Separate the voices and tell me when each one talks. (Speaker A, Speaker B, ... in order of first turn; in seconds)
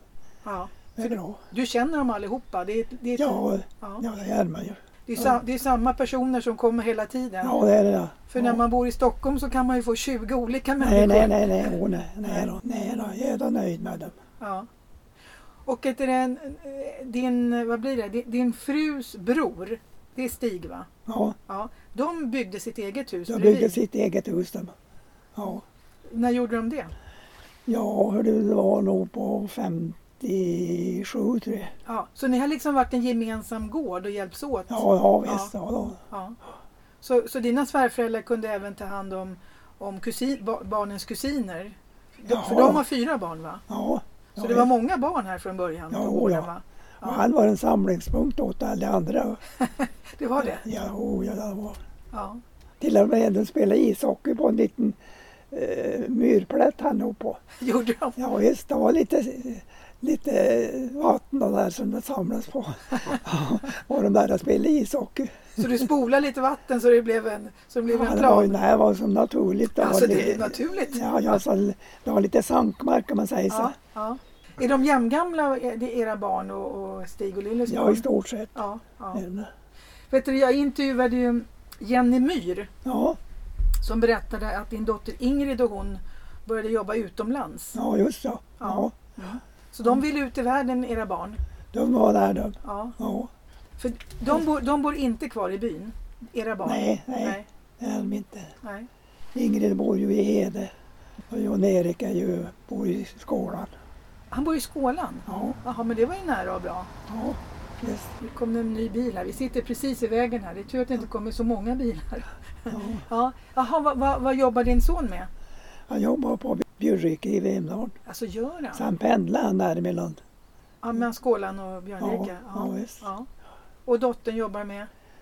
Speaker A: 0.4-4.0, 5.1-7.6, 8.3-11.8, 14.4-14.7, 15.7-20.9, 21.5-23.8, 26.1-26.9, 31.9-35.5, 36.1-36.4, 37.0-43.6, 44.4-47.3, 49.6-50.6, 52.1-52.4, 57.6-58.2, 62.9-63.2, 65.6-68.6, 69.8-71.0, 73.5-79.2, 80.1-82.7, 83.8-87.8, 88.6-91.4, 92.6-93.0, 93.8-97.5, 104.3-106.9, 108.2-115.3, 118.1-118.8, 120.8-123.3, 123.9-124.9
Speaker B: 0.9-1.4, 3.1-5.4, 7.4-8.6, 10.8-14.1, 21.1-21.4, 23.3-24.7, 25.4-25.6, 27.7-31.7, 34.7-36.0, 42.3-42.9, 43.7-44.7, 45.9-46.5, 47.0-49.4, 50.4-51.8, 52.8-55.0, 55.5-57.4, 58.2-65.8, 67.9-73.8, 77.7-78.6, 79.1-79.5, 82.8-83.2, 87.7-88.9, 91.7-93.3, 96.6-98.5, 99.3-100.7, 101.3-103.7, 105.3-105.6, 107.1-108.1, 112.7-113.0, 115.9-117.9, 118.7-120.2, 122.0-123.0